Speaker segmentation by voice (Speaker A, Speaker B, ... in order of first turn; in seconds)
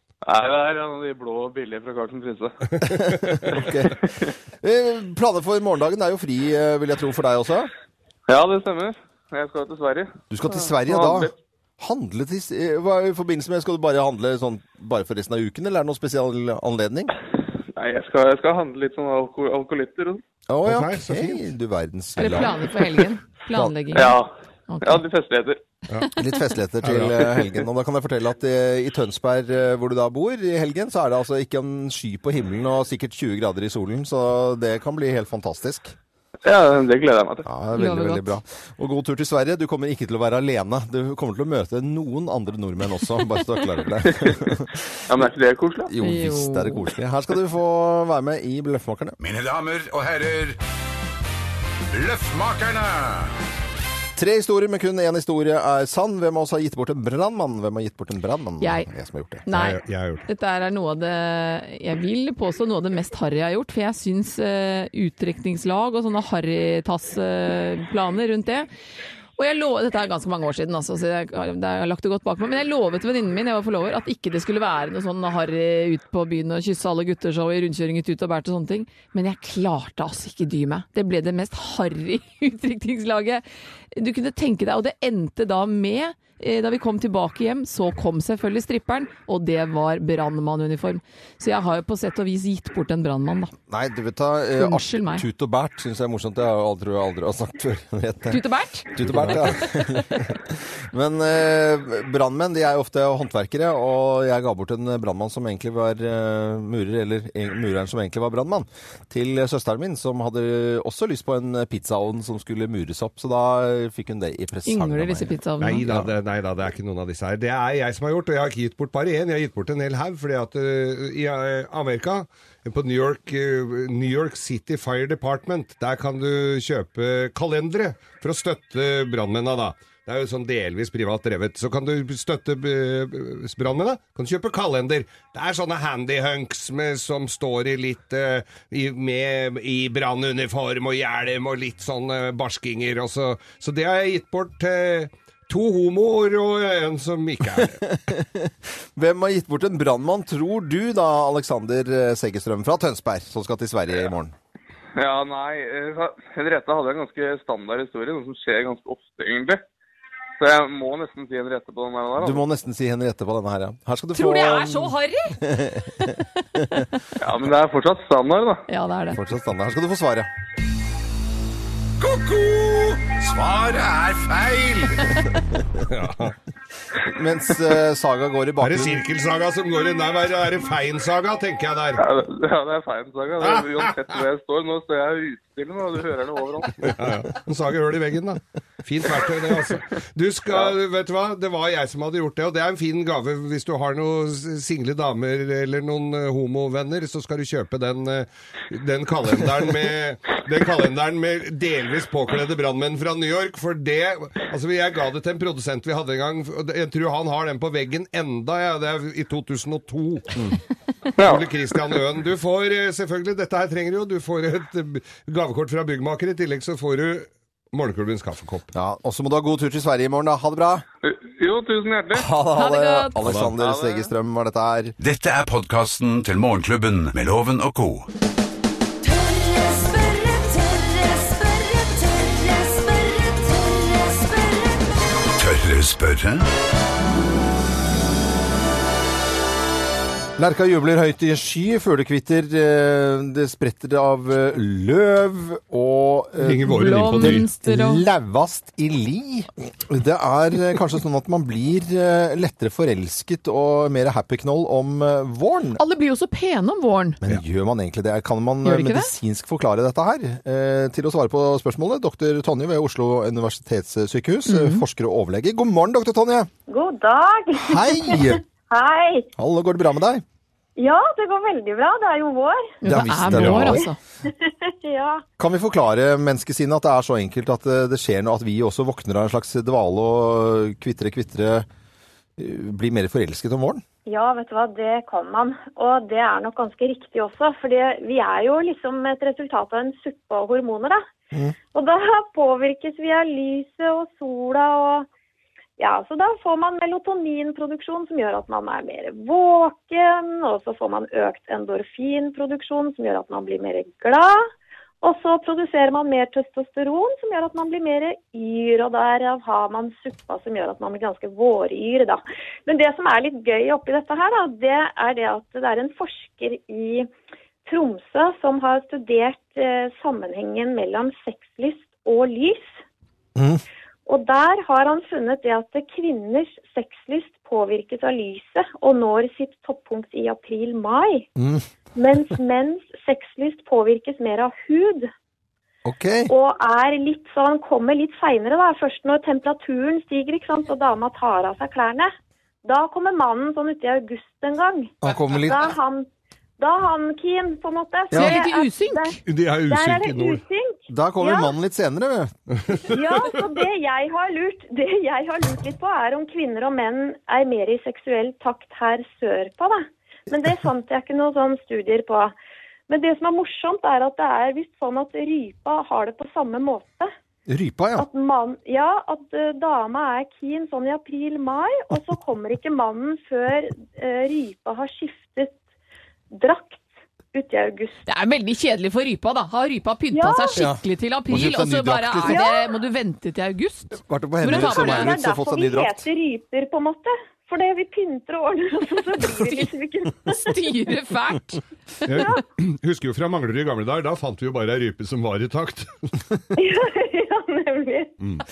Speaker A: 0.2-2.6, 4.0-4.3, 8.3-11.3, 17.8-20.2, 23.9-24.3, 24.8-25.6, 36.5-37.5, 44.1-44.4, 45.1-45.9, 155.0-159.7, 160.4-162.4, 167.2-168.6, 182.0-186.9, 211.2-211.5, 221.0-222.3, 223.5-224.1
Speaker B: 2.9-4.0, 4.6-7.7, 10.3-17.1, 20.5-22.6, 26.2-36.0, 37.5-44.8, 45.9-49.2, 54.2-59.5, 93.7-115.3, 147.9-154.3, 162.2-166.8, 169.1-170.3, 177.1-179.0, 218.7-220.8, 222.1-225.0, 240.4-255.8, 257.2-266.5, 267.6-268.4, 269.4-270.2, 272.8-273.9, 275.4-281.7, 282.4-283.8, 323.4-323.6, 331.4-331.6, 335.9-336.3, 345.0-345.8, 348.1-348.4, 350.9-352.3, 367.5-368.1, 380.6-382.5, 384.0-386.1
Speaker C: 20.6-21.4, 26.8-27.5, 59.5-60.3, 99.0-99.4, 115.6-147.9, 175.9-176.3, 178.6-182.0, 183.4-184.2, 186.8-210.5, 211.2-218.7, 223.2-223.5, 246.4-247.5, 273.3-273.8, 349.3-350.4, 352.6-353.0, 392.1-396.0
Speaker D: 22.2-24.2, 24.7-25.0, 37.8-38.3, 46.0-46.8, 58.6-58.9, 59.5-68.7, 69.4-83.4, 83.9-93.5, 94.6-95.2, 98.3-99.8, 114.7-115.9, 164.1-165.4, 168.7-169.2, 222.6-223.2, 246.7-248.0, 255.8-257.2, 258.6-259.1, 264.5-264.8, 272.8-274.0, 348.1-349.2, 378.1-385.1, 390.3-391.6
Speaker E: 49.2-50.6, 51.9-53.3, 172.0-175.1, 225.0-228.1, 235.3-236.5
Speaker F: 229.0-234.8
Speaker G: 266.7-269.3, 270.8-272.8, 274.2-275.2, 284.1-291.0, 291.7-295.1, 295.8-304.5, 305.0-317.1, 317.7-322.8, 324.1-331.3, 331.9-335.1, 336.3-342.1, 342.6-346.1, 346.6-351.5, 352.9-362.3, 362.9-367.1, 368.0-375.6, 376.3-378.0, 380.1-380.6, 382.3-382.7, 384.5-390.6, 396.6-398.1